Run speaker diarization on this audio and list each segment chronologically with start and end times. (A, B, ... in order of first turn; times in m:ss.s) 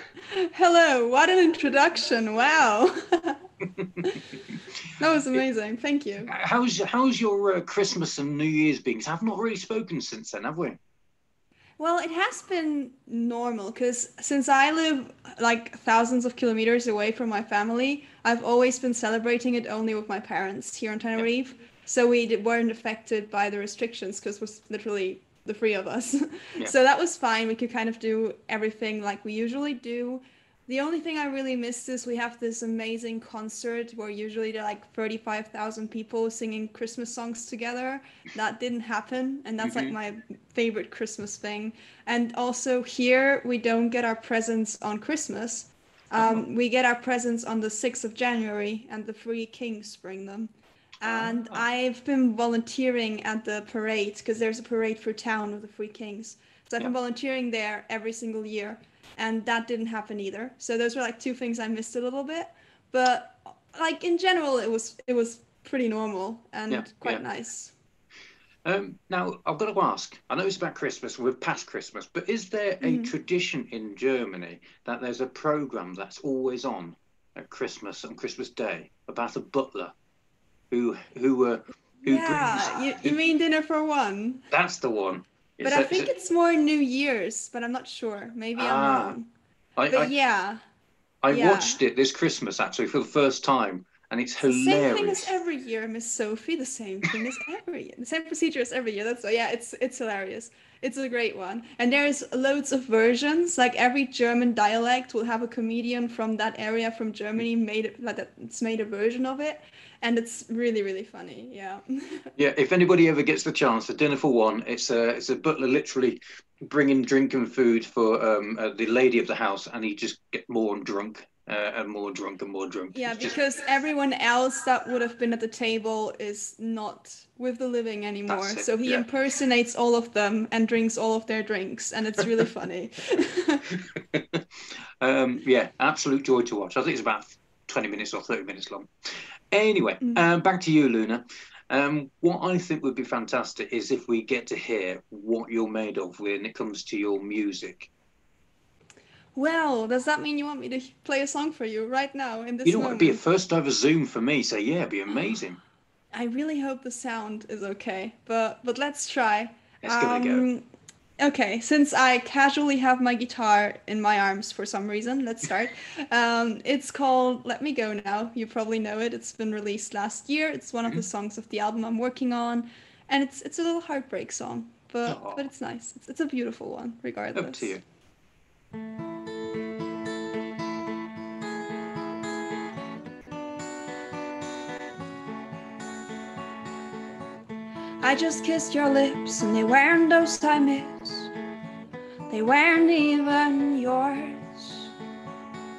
0:00.2-0:03.4 A
0:05.0-0:06.3 A
0:06.3-0:10.8 B
0:11.8-1:07.7 A
0:39.6-0:40.0 B
0:46.2-0:46.5 B
0:51.0-0:51.6 B
1:06.7-1:07.2 B
1:08.6-1:19.9 B
1:12.8-1:13.1 A
1:20.7-1:23.2 B
1:22.0-1:24.4 A
1:24.5-1:26.1 B
1:25.6-1:29.3 A
1:28.6-1:29.2 B
1:29.8-1:30.1 B
1:29.9-1:30.6 A
1:31.2-1:35.4 B
1:31.3-1:31.8 A
1:34.4-1:52.3 A
1:52.4-2:03.4 B
2:02.9-2:13.7 A
2:08.3-2:09.1 B
2:13.9-2:14.4 B
2:15.0-2:18.9 B
2:19.5-2:27.9 B
2:29.4-2:33.2 A
2:32.6-2:35.6 B
2:36.1-2:40.7 A
2:39.8-2:40.5 B
2:41.2-2:57.7 A
2:55.1-2:55.4 B
2:57.3-2:57.8 B
3:08.0-3:11.3 A
3:12.3-3:14.9 A